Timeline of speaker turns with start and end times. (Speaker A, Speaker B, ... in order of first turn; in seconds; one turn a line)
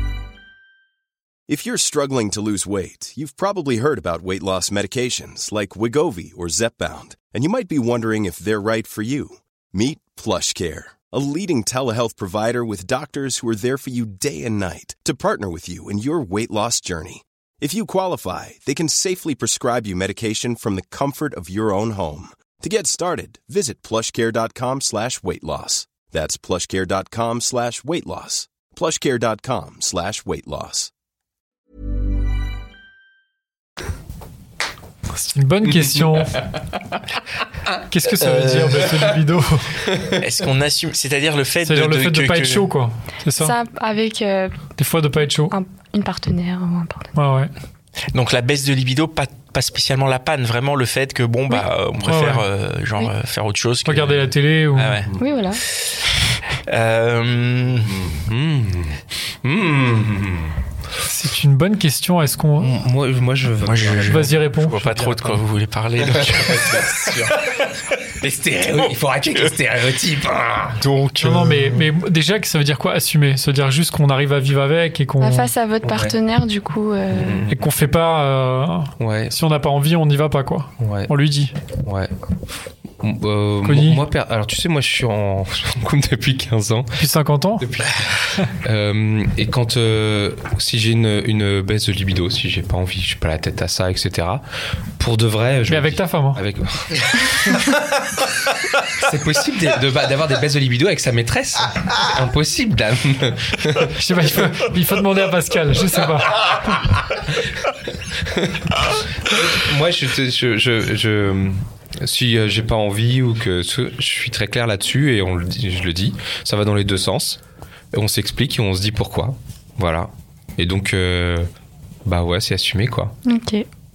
Speaker A: 1.5-30.9
Speaker B: 35.1-36.4
Speaker B: 37.9-39.8
Speaker C: 38.1-39.1
Speaker D: 39.9-40.2
Speaker C: 40.1-42.7
Speaker B: 41.6-43.5
Speaker E: 43.4-44.7
Speaker B: 44.7-45.5
Speaker E: 45.5-47.1
Speaker B: 47.1-47.5
Speaker C: 48.1-55.1
Speaker B: 52.0-52.5
Speaker B: 53.8-55.0
Speaker E: 55.2-55.6
Speaker C: 55.7-58.2
Speaker D: 58.1-60.6
Speaker B: 61.0-62.7
Speaker D: 62.6-65.4
Speaker C: 63.6-67.4
Speaker B: 64.0-64.9
Speaker D: 66.0-70.8
Speaker C: 68.6-69.5
Speaker C: 70.8-71.8
Speaker B: 71.2-75.5
Speaker E: 75.2-77.5
Speaker D: 75.8-76.1
Speaker D: 77.1-77.7
Speaker B: 77.5-81.5
Speaker D: 79.0-79.3
Speaker D: 80.8-81.1
Speaker D: 81.8-82.1
Speaker D: 83.0-87.0
Speaker B: 83.6-84.0
Speaker B: 87.0-87.7
Speaker D: 87.6-94.4
Speaker D: 95.0-98.2
Speaker B: 95.7-96.4
Speaker D: 99.0-104.0
Speaker B: 104.0-106.4
Speaker D: 106.9-107.2
Speaker D: 108.1-117.4
Speaker D: 117.9-121.5
Speaker D: 122.0-123.1
Speaker E: 123.2-123.7